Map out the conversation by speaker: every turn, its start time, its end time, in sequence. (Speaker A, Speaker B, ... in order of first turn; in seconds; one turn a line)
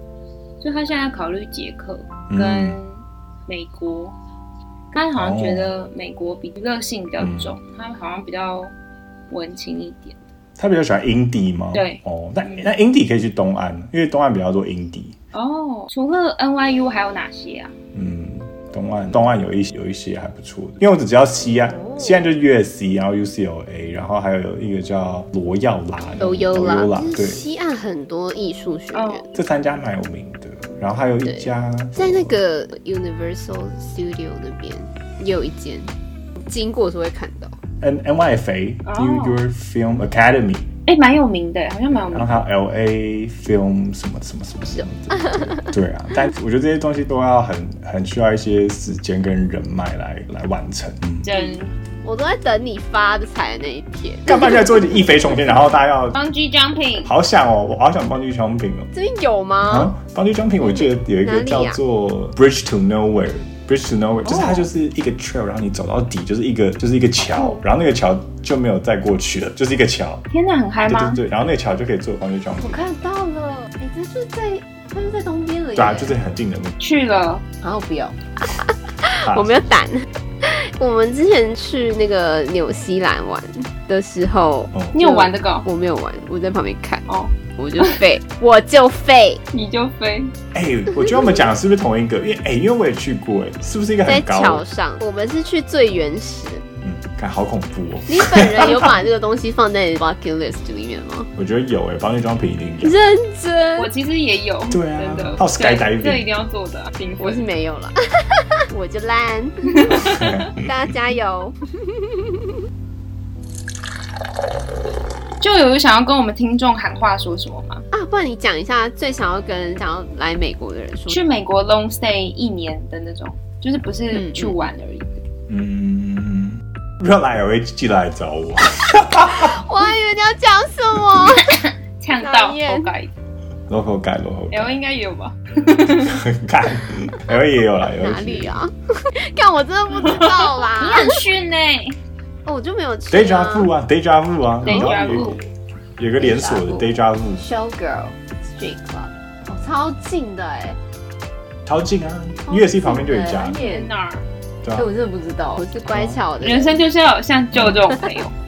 Speaker A: 0.6-4.1
Speaker B: 2.3-2.8
Speaker A: 4.9-8.7
Speaker B: 5.2-5.7
Speaker B: 7.2-7.5
Speaker A: 9.3-10.2
Speaker B: 10.6-15.1
Speaker A: 11.7-12.7
Speaker A: 15.3-17.7
Speaker B: 17.9-27.4
Speaker C: 21.8-22.3
Speaker C: 26.2-29.3
Speaker A: 28.9-29.2
Speaker B: 29.3-32.3
Speaker C: 31.2-35.9
Speaker C: 36.5-37.5
Speaker B: 37.8-40.7
Speaker A: 38.9-39.4
Speaker A: 40.9-42.3
Speaker B: 41.9-51.3
Speaker C: 44.8-45.6
Speaker A: 51.2-51.7
Speaker C: 51.3-55.6
Speaker B: 54.2-56.2
Speaker A: 56.1-57.1
Speaker B: 57.0-58.9
Speaker C: 58.9-59.9
Speaker B: 59.6-70.2
Speaker C: 60.6-61.8
Speaker A: 64.3-64.5
Speaker C: 67.3-67.6
Speaker A: 70.3-71.2
Speaker B: 70.8-72.8
Speaker C: 72.6-76.2
Speaker B: 75.7-76.8
Speaker A: 76.8-77.4
Speaker C: 77.6-89.4
Speaker B: 79.2-79.7
Speaker B: 84.7-85.0
Speaker A: 84.9-85.7
Speaker A: 87.1-88.0
Speaker A: 89.5-90.3
Speaker B: 90.5-94.6
Speaker C: 94.0-96.6
Speaker B: 96.8-98.9
Speaker C: 98.1-101.3
Speaker B: 101.3-103.0
Speaker C: 102.8-103.9
Speaker A: 103.8-107.5
Speaker B: 104.7-106.2
Speaker C: 107.2-110.0
Speaker A: 109.8-110.4
Speaker B: 110.0-110.5
Speaker C: 110.6-112.2
Speaker A: 115.4-117.8
Speaker C: 117.9-121.2
Speaker A: 121.1-125.2
Speaker C: 124.1-124.6
Speaker B: 125.5-129.5
Speaker C: 129.2-131.5
Speaker A: 131.3-133.1
Speaker C: 132.2-132.9
Speaker B: 133.7-134.8
Speaker A: 134.5-136.2
Speaker B: 136.0-138.6
Speaker C: 138.0-141.2
Speaker A: 139.9-141.9
Speaker C: 142.4-143.7
Speaker B: 143.1-145.4
Speaker A: 144.6-145.4
Speaker C: 144.6-145.4
Speaker B: 146.0-147.5
Speaker C: 146.2-150.8
Speaker B: 151.7-153.6
Speaker C: 152.4-153.9
Speaker A: 153.5-154.2
Speaker B: 154.6-154.9
Speaker C: 154.7-156.8
Speaker B: 155.9-156.2
Speaker A: 156.4-158.3
Speaker B: 157.5-157.8